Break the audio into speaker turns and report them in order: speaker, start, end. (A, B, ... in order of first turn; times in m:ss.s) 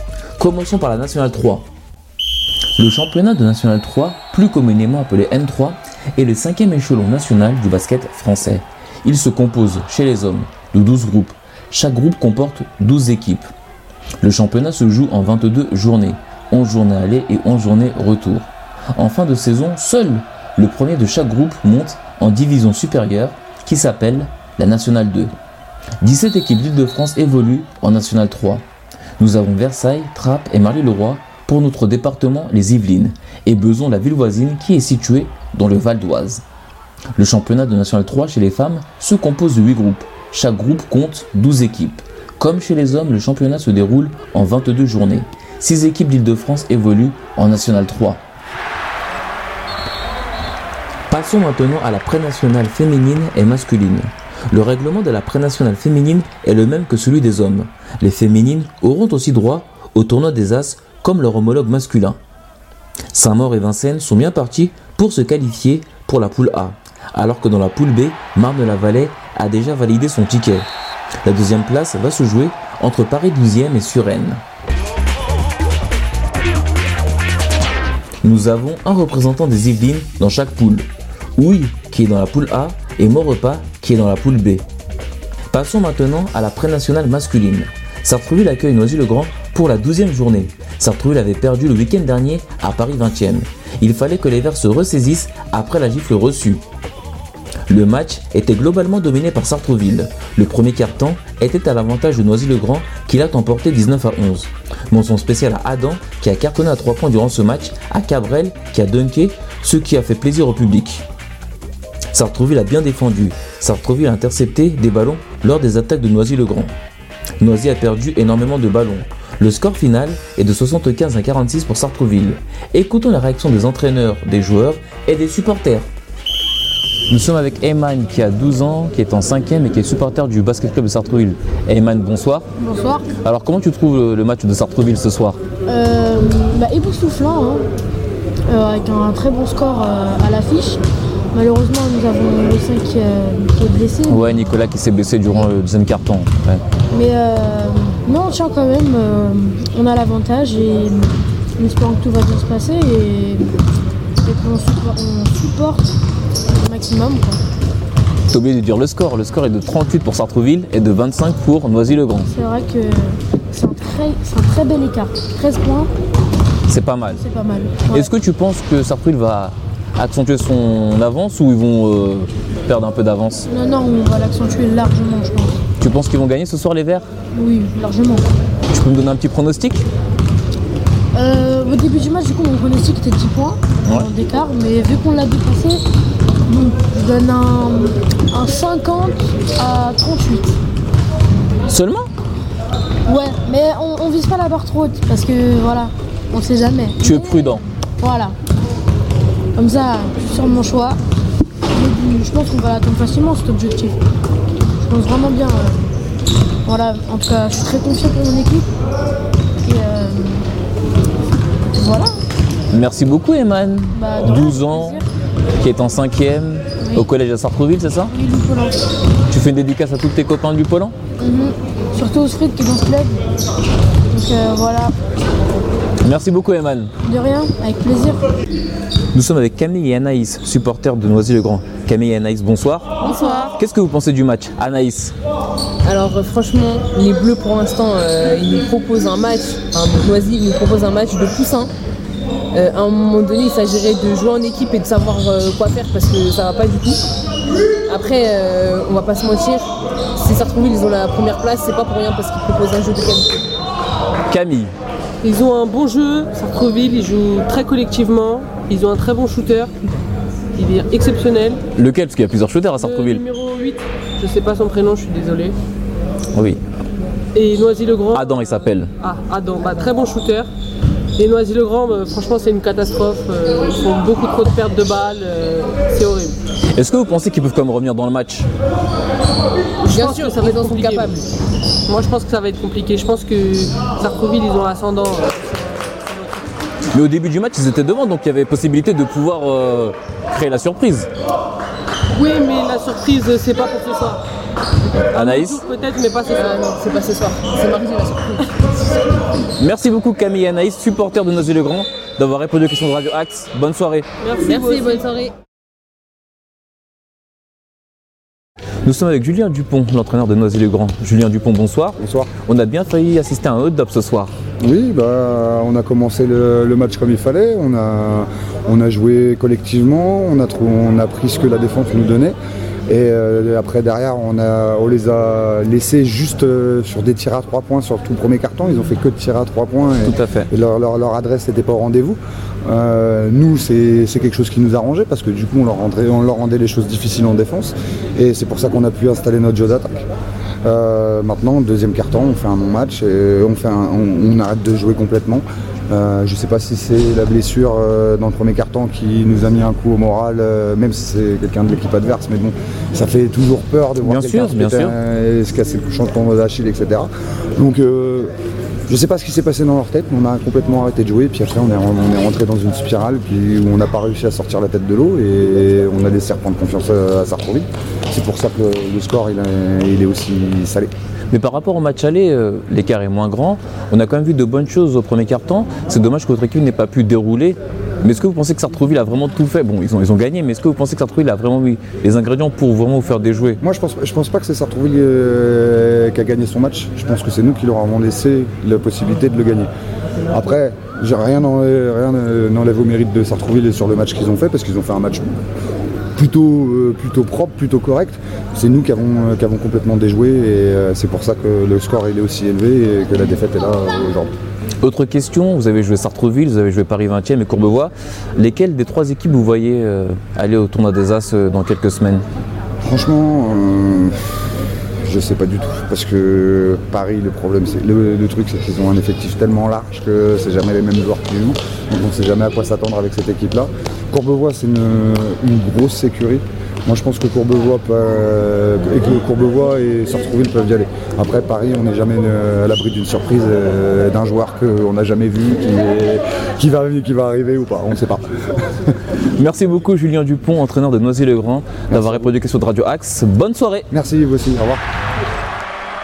0:00.4-0:01.7 A
0:02.8-0:13.5 A
0:14.2-0:25.3 A
0:26.0-0:28.6 A
0:29.2-0:36.4 A
0:37.2-0:48.2 A
0:51.1-1:02.2 A
1:03.1-1:10.7 A
1:11.2-1:14.4 A
1:18.2-1:24.6 A
1:25.5-1:36.6 A
1:37.7-1:51.0 A
1:52.1-1:56.7 A
1:57.4-2:05.9 A
2:07.1-2:12.5 A
2:12.6-2:13.1 B
2:13.1-2:15.4 A
2:15.7-2:17.6 B
2:18.5-2:20.8 B
2:21.3-2:24.4 B
2:24.1-2:26.6 A
2:26.9-2:33.5 B
2:34.2-2:35.9 B
2:36.5-2:37.4 B
2:38.3-2:42.3 A
2:42.3-2:45.9 B
2:46.7-2:47.2 A
2:47.0-2:48.1 B
2:47.8-2:53.5 A
2:53.5-2:55.6 B
2:55.8-2:57.1 A
2:57.3-2:58.2 B
2:58.7-2:59.9 A
3:01.1-3:05.8 B
3:03.8-3:04.1 A
3:06.5-3:10.6 B
3:11.7-3:12.1 A
3:13.0-3:18.4 B
3:17.0-3:17.6 A
3:19.6-3:21.0 B
3:21.7-3:24.0 B
3:24.8-3:25.8 B
3:26.6-3:28.7 B
3:29.6-3:30.5 B
3:31.7-3:32.2 B
3:32.7-3:35.0 A
3:33.9-3:35.0 B
3:35.6-3:38.1 A
3:36.8-3:37.1 B
3:38.1-3:38.8 B
3:39.3-3:41.0 A
3:41.2-3:43.2 B
3:44.1-3:44.9 B
3:46.0-3:46.9 A
3:47.0-3:48.3 B
3:49.1-3:52.9 A
3:53.0-3:53.5 C
3:53.2-3:53.5 B
3:53.5-3:55.1 A
3:55.8-4:01.7 C
4:02.5-4:07.0 C
4:07.8-4:13.4 C
4:14.2-4:14.7 A
4:15.2-4:19.8 D
4:20.6-4:21.6 D
4:21.7-4:23.2 A
4:22.8-4:25.6 D
4:26.3-4:26.6 A
4:27.3-4:30.5 D
4:28.1-4:28.9 A
4:31.2-4:36.4 D
4:36.7-4:38.5 A
4:39.8-4:41.3 D
4:39.9-4:41.2 C
4:41.9-4:46.4 D
4:46.9-4:51.1 A
4:52.1-4:54.2 D
4:54.9-4:55.6 A
4:55.0-4:56.8 D
4:56.4-4:58.5 C
4:59.6-5:04.1 A
5:04.2-5:05.1 D
5:04.4-5:05.3 C
5:08.8-5:14.3 A
5:12.0-5:12.3 E
5:14.6-5:22.4 E
5:22.9-5:40.1 E
5:30.0-5:30.5 A
5:40.6-5:58.3 E
5:54.0-5:55.0 A
5:58.9-6:10.9 E
6:11.3-6:23.6 A
6:23.6-6:29.7 E
6:30.3-6:35.3 E
6:36.2-6:44.3 E
6:44.8-6:52.2 A
6:52.8-6:54.1 E
6:55.0-7:18.2 E
7:19.1-7:23.9 A
7:23.9-7:24.8 E